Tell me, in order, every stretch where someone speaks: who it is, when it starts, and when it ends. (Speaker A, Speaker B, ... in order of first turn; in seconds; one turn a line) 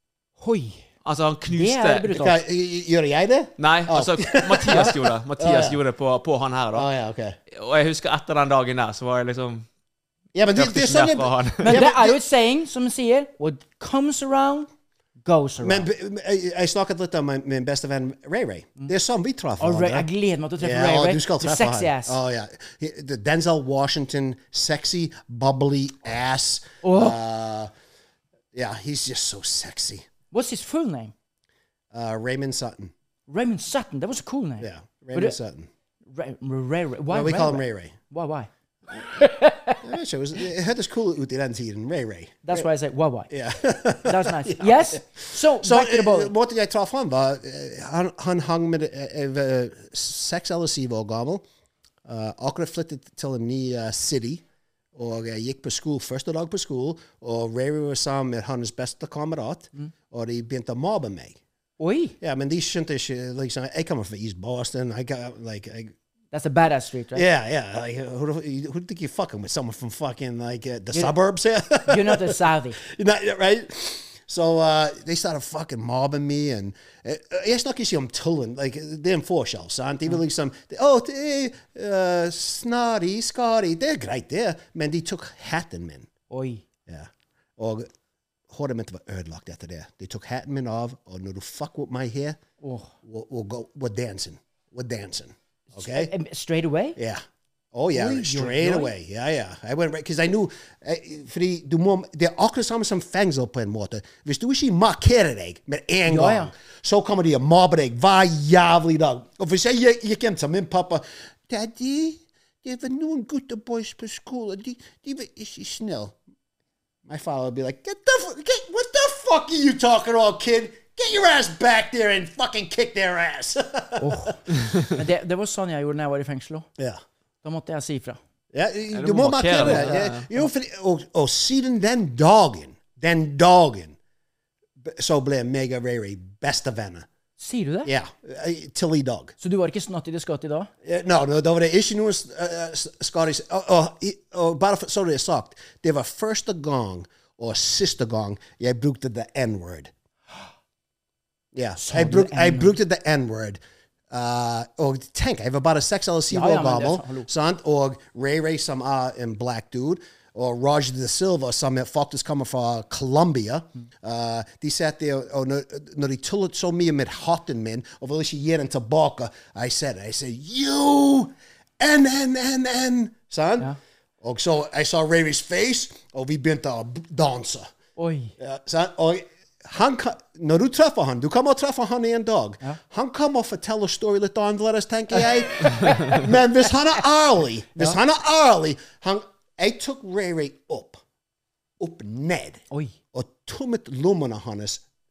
Speaker A: 0.4-0.8
Speaker B: 1.0-2.1
Speaker A: 1.5-2.4
Speaker C: 2.1-5.8
Speaker B: 3.6-6.9
Speaker C: 6.7-7.4
Speaker B: 7.5-9.7
Speaker C: 10.3-12.2
Speaker B: 10.5-11.8
Speaker A: 11.6-14.7
Speaker A: 15.2-15.9
Speaker C: 15.6-20.1
Speaker A: 19.6-22.2
Speaker C: 20.6-27.7
Speaker A: 26.8-27.2
Speaker C: 28.5-30.1
Speaker A: 30.3-31.1
Speaker C: 31.9-32.9
Speaker A: 33.3-35.4
Speaker C: 34.6-35.7
Speaker A: 36.1-38.5
Speaker C: 37.1-37.9
Speaker A: 39.0-39.8
Speaker C: 39.8-42.6
Speaker A: 42.4-43.3
Speaker C: 43.3-51.4
Speaker A: 44.0-46.3
Speaker C: 52.0-54.4
Speaker C: 54.9-61.4
Speaker A: 61.8-62.1
Speaker C: 62.2-65.9
Speaker A: 66.3-67.2
Speaker C: 67.1-86.1
Speaker A: 71.8-72.8
Speaker A: 86.3-86.6
Speaker C: 86.9-87.9
Speaker C: 88.5-92.4
Speaker A: 92.6-92.9
Speaker C: 93.0-96.1
Speaker A: 95.7-97.0
Speaker C: 97.0-116.2
Speaker A: 97.9-98.9
Speaker A: 106.1-106.5
Speaker C: 117.0-124.3
Speaker A: 124.0-126.7
Speaker A: 127.4-128.2
Speaker C: 128.5-134.0
Speaker B: 128.9-130.2
Speaker A: 129.6-130.4
Speaker C: 134.8-137.1
Speaker A: 137.4-137.9
Speaker C: 137.8-139.3
Speaker A: 139.4-140.7
Speaker C: 140.8-149.9
Speaker C: 151.5-153.6
Speaker A: 151.8-152.8
Speaker C: 154.1-177.7
Speaker A: 156.3-157.3
Speaker A: 178.0-178.3
Speaker C: 178.4-191.0
Speaker A: 185.7-186.2
Speaker C: 191.8-192.6
Speaker C: 193.1-194.8